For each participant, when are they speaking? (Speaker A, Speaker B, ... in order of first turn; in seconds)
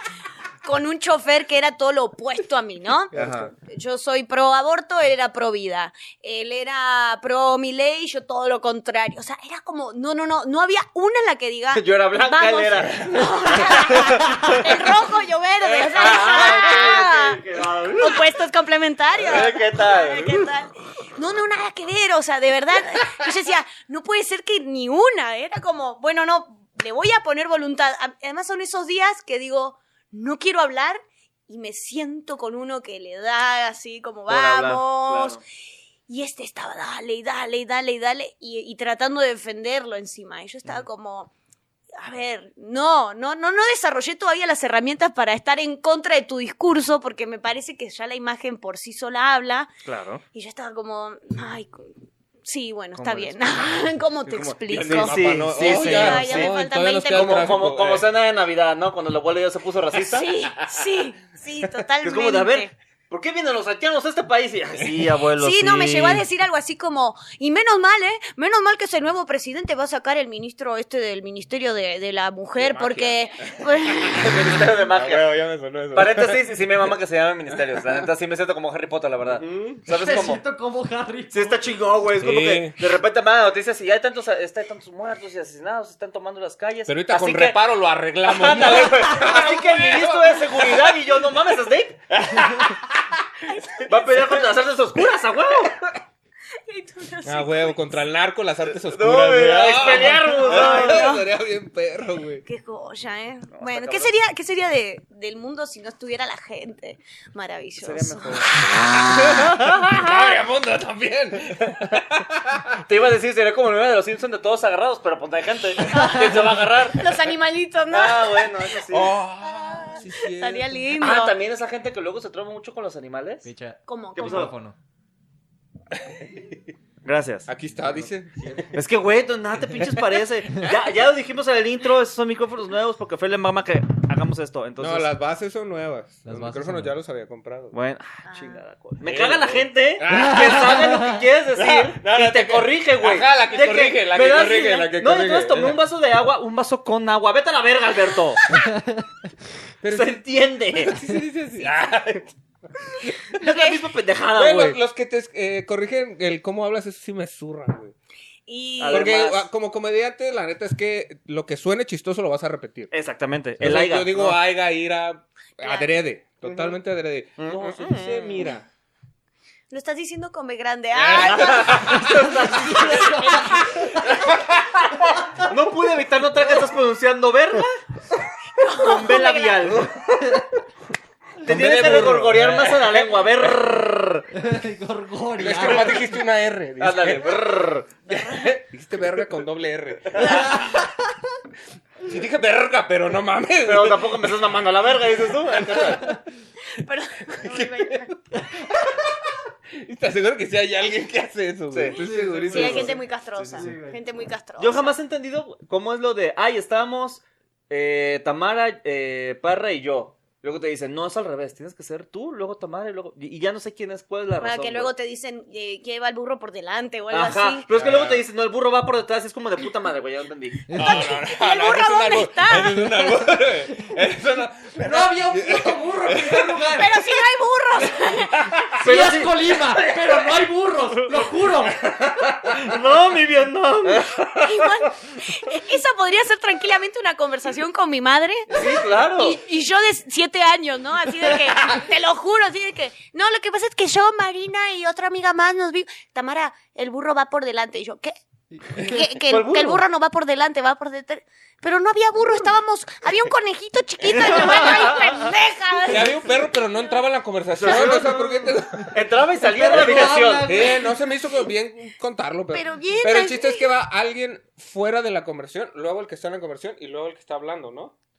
Speaker A: 0.6-17.4, 18.0-35.4, 36.1-41.3, 42.0-49.7, 50.3-51.9, 52.4-57.6, 60.0-62.7, 65.4-74.4, 93.5-94.4, 96.7-97.9, 100.1-101.3, 102.5-109.0, 116.0-116.3, 116.9-118.7, 119.6-121.4, 123.9-124.5, 138.3-138.6, 153.4-153.8, 158.5-159.2, 165.6-165.9, 169.7-172.0, 172.9-173.6, 178.6-179.8, 188.1-188.5, 196.7-198.1, 202.5-204.9, 214.4-217.7, 220.9-222.9, 226.8-228.5, 234.4-248.1, 248.7-256.3, 262.5-263.7
Speaker B: 3.1-3.5, 16.0-16.5, 54.7-58.1, 72.6-76.6, 77.5-78.0, 79.4-79.8, 82.2-82.8, 86.9-91.1, 92.1-93.2, 97.2-102.5, 109.0-112.8, 118.9-120.9, 125.9-126.6, 127.5-128.7, 129.8-130.2, 134.8-137.8, 139.0-145.8, 149.8-150.2, 150.7-152.3, 152.9-153.3, 154.3-157.9, 158.9-162.9, 163.6-168.7, 170.9-172.2, 173.6-175.2, 179.7-180.3, 181.4-183.6, 185.4-190.8, 192.0-194.4, 195.3-196.2, 197.3-203.0, 217.7-218.2, 220.7-226.7, 228.2-228.8, 254.3-254.8, 255.9-259.0, 259.7-267.9
Speaker C: 3.1-3.5, 11.7-14.6, 15.6-18.3, 19.2-20.5, 34.3-35.4, 49.9-50.2, 53.0-56.6, 57.1-60.3, 62.0-66.2, 74.2-75.3, 75.9-80.4, 81.3-87.6, 88.2-92.0, 93.8-95.8, 98.7-101.1, 103.5-104.1, 107.8-108.6, 109.4-110.0, 112.8-117.1, 117.9-119.2, 121.0-123.5, 124.2-124.5, 127.0-127.5, 128.7-135.1, 137.7-148.4, 149.9-150.9, 153.4-154.8, 158.8-159.5, 162.9-164.4, 166.4-166.7, 167.4-168.5, 171.2-173.4, 175.4-177.8, 178.8-179.9, 181.4-184.3, 186.8-187.9, 193.7-196.2, 201.7-202.0, 202.5-203.7, 204.6-214.9, 217.1-220.7, 228.8-229.5, 232.1-234.5, 238.5-239.4, 249.3-249.8, 254.2-255.1, 257.6-260.5
Speaker D: 79.9-81.8, 123.4-124.8, 127.8-128.7, 136.3-137.0, 140.1-141.1, 148.7-149.0, 172.1-174.1, 181.8-182.4, 184.3-186.2, 190.3-190.9, 201.9-203.0, 203.5-204.0, 220.7-221.1, 224.8-227.1, 228.7-231.8, 248.5-248.8, 259.5-260.9